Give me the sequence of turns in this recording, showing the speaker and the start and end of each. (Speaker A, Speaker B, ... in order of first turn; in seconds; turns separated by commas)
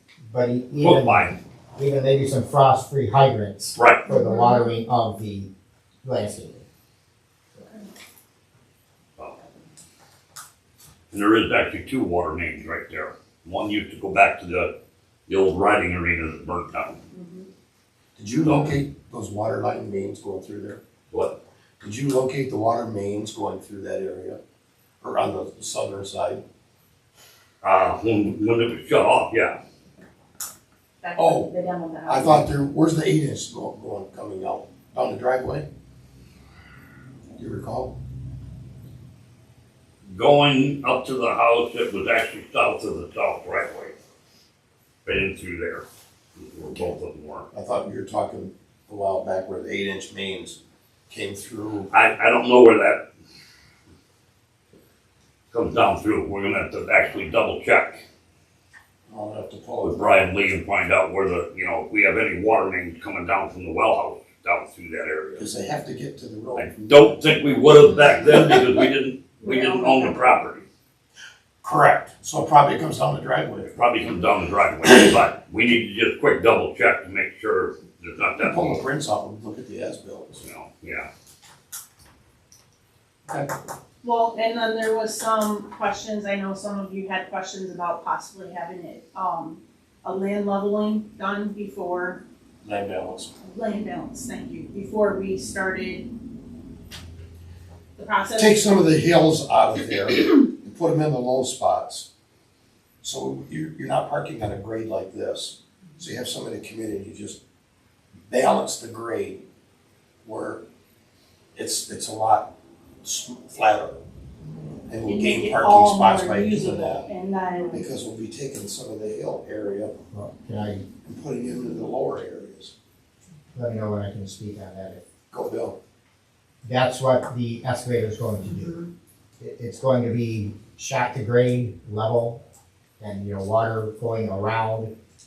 Speaker A: 0.3-5.5, Speaker B: 0.8-1.3, Speaker B: 3.8-4.1, Speaker C: 4.1-4.7, Speaker A: 6.0-6.6, Speaker B: 11.1-14.7, Speaker B: 15.3-17.0, Speaker C: 17.1-17.4, Speaker D: 18.1-20.8, Speaker B: 18.4-18.7, Speaker B: 21.1-21.4, Speaker D: 21.8-24.4, Speaker D: 25.0-26.4, Speaker B: 27.6-29.6, Speaker C: 31.0-32.4, Speaker D: 31.2-31.5, Speaker D: 32.0-35.7, Speaker D: 37.4-37.9, Speaker B: 40.1-43.9, Speaker B: 45.0-45.8, Speaker B: 46.4-47.5, Speaker D: 47.5-50.6, Speaker D: 51.1-51.9, Speaker B: 51.9-53.0, Speaker B: 55.5-58.0, Speaker D: 59.1-60.3, Speaker B: 59.8-65.4, Speaker D: 65.4-67.1, Speaker B: 66.5-70.7, Speaker E: 69.4-70.1, Speaker D: 71.6-73.7, Speaker B: 73.7-78.8, Speaker D: 78.4-80.4, Speaker B: 80.4-81.1, Speaker E: 84.0-92.2, Speaker D: 92.6-93.3, Speaker E: 93.4-96.1, Speaker E: 98.0-98.8, Speaker D: 98.4-102.0, Speaker D: 103.0-107.4, Speaker D: 108.3-109.4, Speaker D: 110.2-110.6, Speaker D: 111.5-112.5, Speaker D: 113.0-114.0, Speaker D: 114.9-117.1, Speaker E: 115.0-117.8, Speaker D: 117.7-119.9, Speaker A: 120.1-120.8, Speaker D: 121.0-122.7, Speaker A: 123.5-125.0, Speaker D: 125.3-125.8, Speaker A: 126.6-128.8, Speaker A: 129.4-132.4, Speaker A: 133.0-134.9